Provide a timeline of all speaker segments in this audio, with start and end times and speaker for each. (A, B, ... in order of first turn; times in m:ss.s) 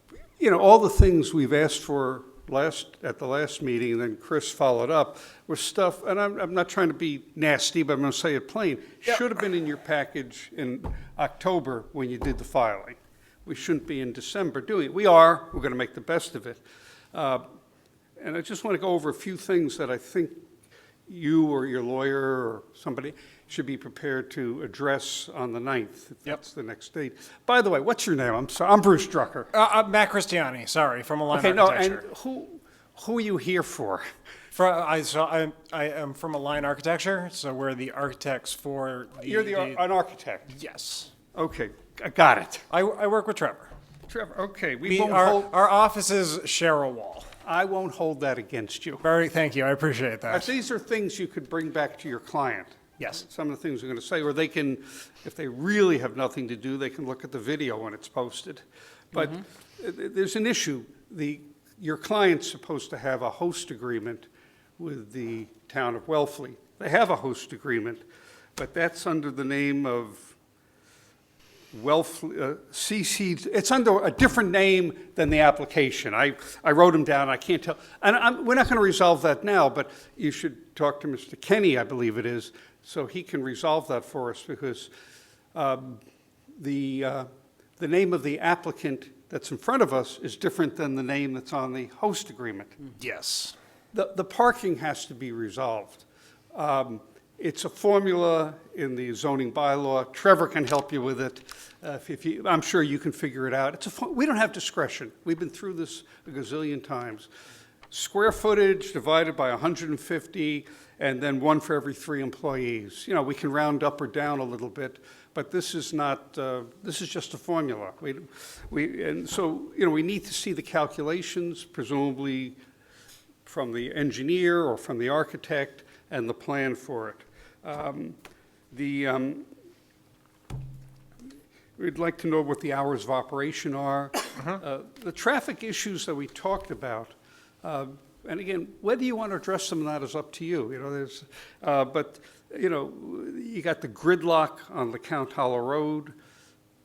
0:00.4-0:17.4 A
0:18.2-0:20.4 A
0:21.1-0:29.5 A
0:29.5-0:32.0 B
0:31.3-0:34.0 A
0:34.5-0:39.8 B
0:39.2-0:40.5 A
0:40.5-0:41.1 B
0:41.3-0:42.6 A
0:42.7-0:43.7 B
0:44.1-0:45.5 A
0:44.8-0:47.3 B
0:47.4-0:49.0 A
0:49.0-0:50.5 B
0:50.3-1:08.0 A
1:08.6-1:10.4 A
1:11.7-1:24.9 A
1:25.5-1:26.0 A
1:26.6-1:32.8 A
1:33.0-1:33.5 B
1:33.9-1:47.3 A
1:47.9-2:02.6 A
2:03.4-2:08.2 A
2:08.7-2:09.5 A
2:11.8-2:26.2 A